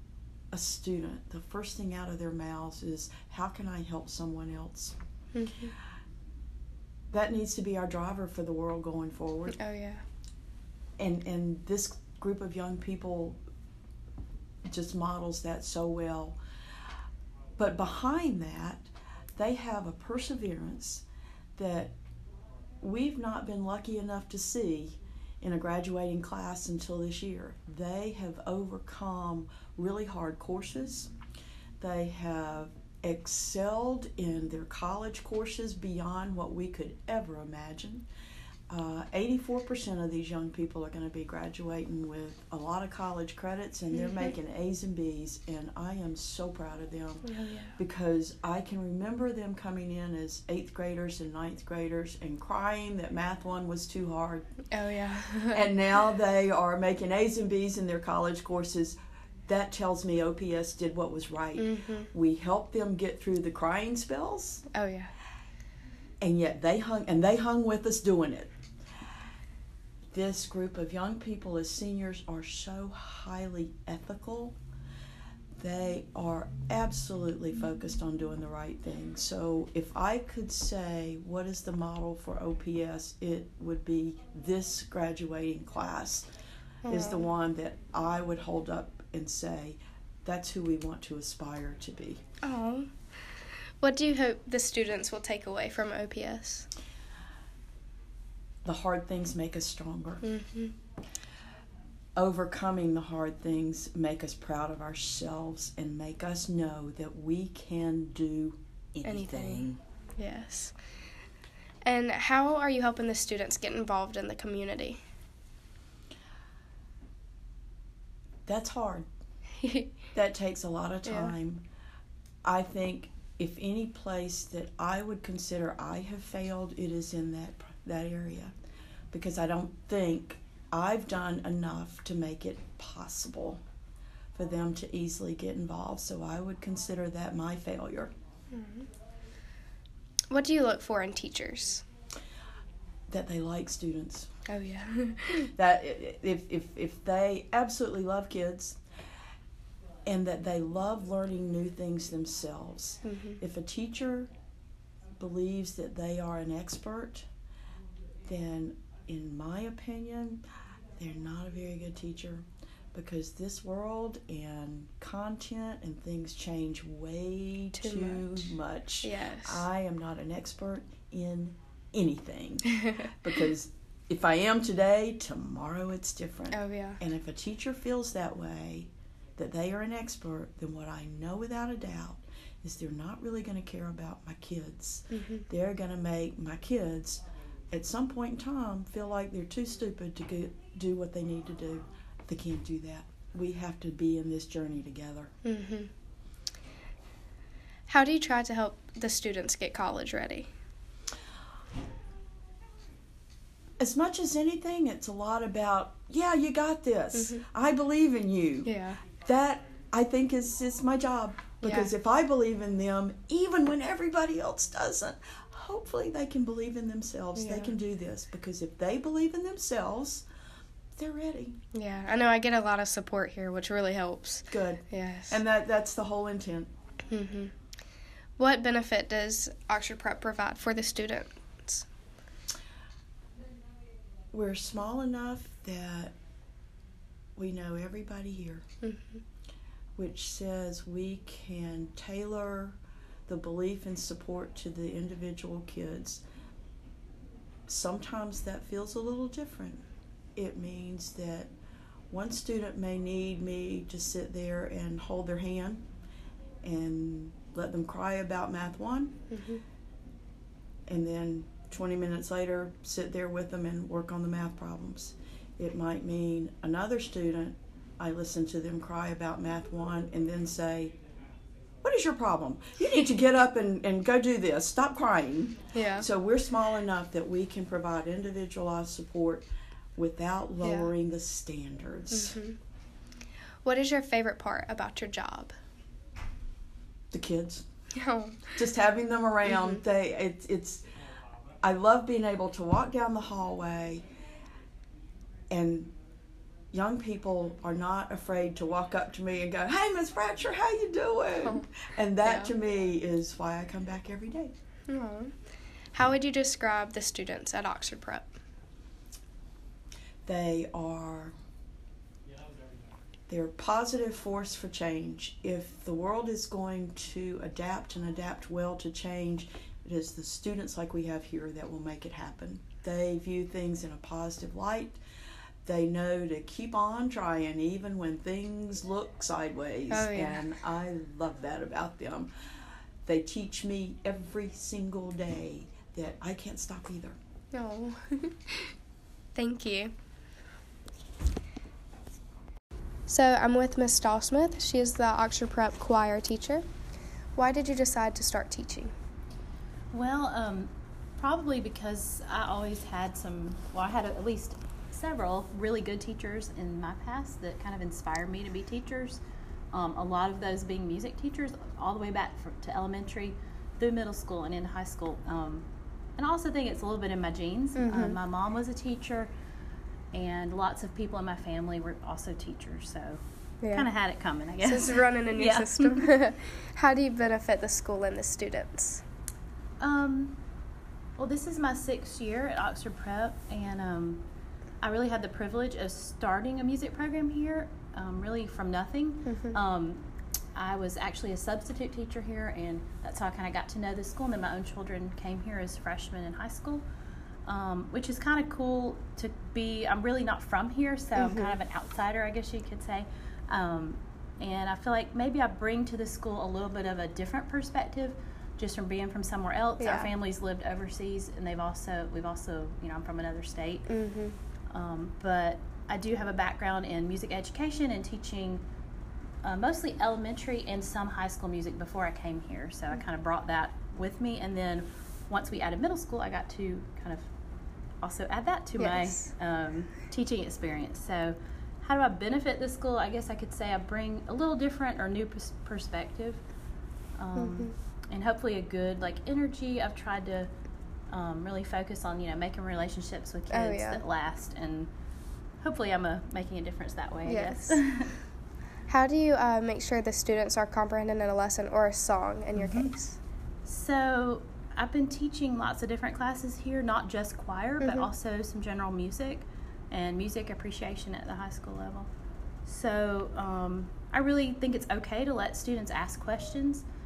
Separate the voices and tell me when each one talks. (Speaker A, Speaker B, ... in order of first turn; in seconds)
Speaker A: 0.5-5.0, 7.1-9.6, 11.0-13.4, 14.7-16.4, 17.6-21.1, 21.6-21.9, 22.8-31.1, 31.8-38.1, 38.7-54.5, 55.5-64.7, 66.2-68.5, 70.1-74.6, 75.6-86.3, 86.9-92.2, 98.6-100.3, 102.2-109.8, 118.5-119.1, 120.1-121.7, 122.4-128.5, 129.1-133.6, 134.3-138.1, 143.1-144.3, 145.6-148.8, 150.1-154.3, 155.2-157.3, 158.2-160.4, 161.0-195.3, 203.8-220.3, 220.9-221.6, 224.5-226.7, 234.3-236.2, 237.4-238.7, 240.0-246.2, 247.7-249.8, 250.4-251.5, 252.1-255.9, 256.6-259.2, 260.9-271.0, 271.8-282.4, 287.1-287.7, 288.6-290.9, 291.6-294.1, 295.5-295.9, 296.7-304.5, 310.2-311.4, 313.3-325.0, 325.6-332.3, 333.1-337.2
Speaker B: 5.3-5.7, 9.6-10.0, 43.9-44.3, 47.3-47.8, 54.7-55.7, 61.6-62.1, 64.7-65.1, 86.9-87.3, 92.4-96.7, 100.2-100.7, 109.0-109.7, 110.2-110.7, 111.8-115.0, 119.6-119.9, 121.0-121.3, 138.5-138.9, 140.3-141.8, 144.5-145.5, 153.0-153.4, 167.8-169.6, 176.5-177.0, 185.1-185.4, 195.4-195.9, 197.9-200.5, 207.1-207.4, 208.7-209.0, 211.6-211.9, 217.4-217.7, 221.7-225.4, 227.1-227.5, 228.4-231.9, 238.8-239.2, 259.3-259.6, 275.7-276.1, 280.6-280.9, 282.1-282.6, 283.6-285.5, 287.9-288.5, 289.5-289.8, 302.2-302.5, 304.9-305.3, 305.9-308.3, 329.9-330.5, 337.5-338.7, 339.4-339.9, 343.1-346.6, 347.4-348.9, 367.8-368.2, 373.6-373.9, 374.6-379.0, 389.3-389.6, 401.2-401.5, 409.8-410.1, 413.9-414.4, 428.8-429.3, 437.4-437.7, 443.5-444.0, 447.3-447.8, 448.9-453.2, 457.8-458.1
Speaker C: 349.9-359.2, 359.7-369.3, 370.1-376.1, 379.8-380.4, 381.2-384.2, 384.8-390.0, 390.6-396.9, 397.5-413.9, 414.7-418.6, 419.4-427.3, 428.0-436.4, 437.2-440.5, 441.1-444.9, 445.6-448.2, 452.6-453.0, 453.6-462.1, 462.7-466.8